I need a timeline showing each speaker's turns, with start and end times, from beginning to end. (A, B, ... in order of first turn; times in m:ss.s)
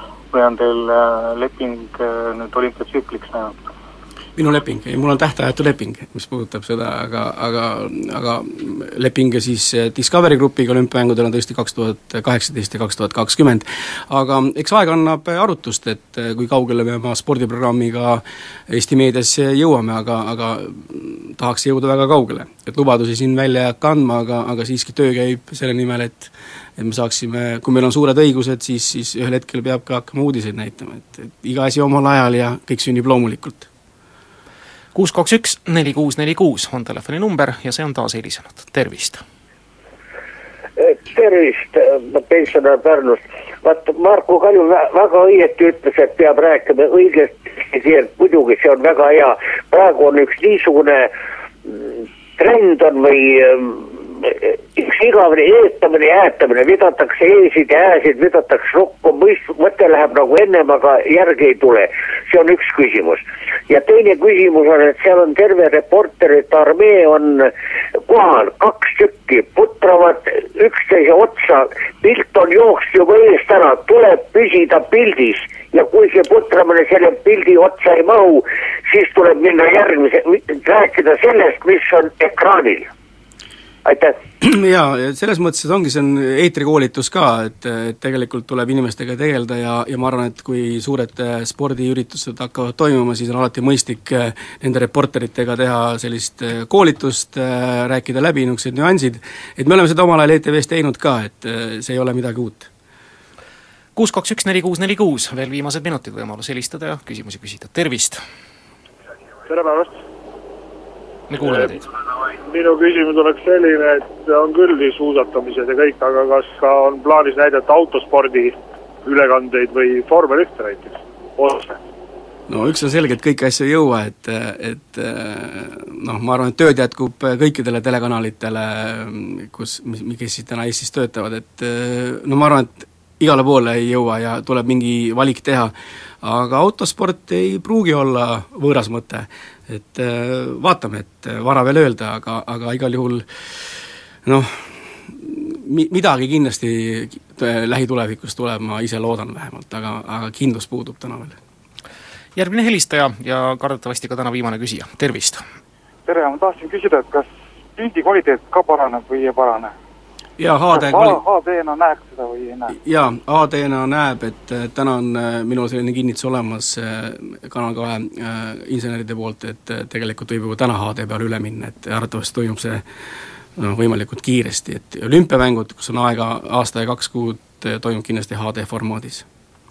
0:00.3-0:03.6 A
0:04.4-0:33.7 B
0:35.0-0:39.2 C
0:40.8-0:51.1 D
0:51.7-1:07.5 D
1:08.1-1:22.9 D
1:23.8-1:24.2 D
1:24.4-1:42.7 B
1:44.0-1:48.2 C
1:49.5-1:50.0 E
1:51.3-1:51.8 C
1:51.4-1:51.8 E
1:52.5-2:01.8 E
2:02.5-2:23.2 B
2:24.2-2:31.4 B
2:32.4-2:35.4 C
2:36.1-2:39.7 F
2:40.4-2:41.2 B
2:40.7-2:42.7 F
2:42.7-2:52.8 B
2:53.6-2:59.3 B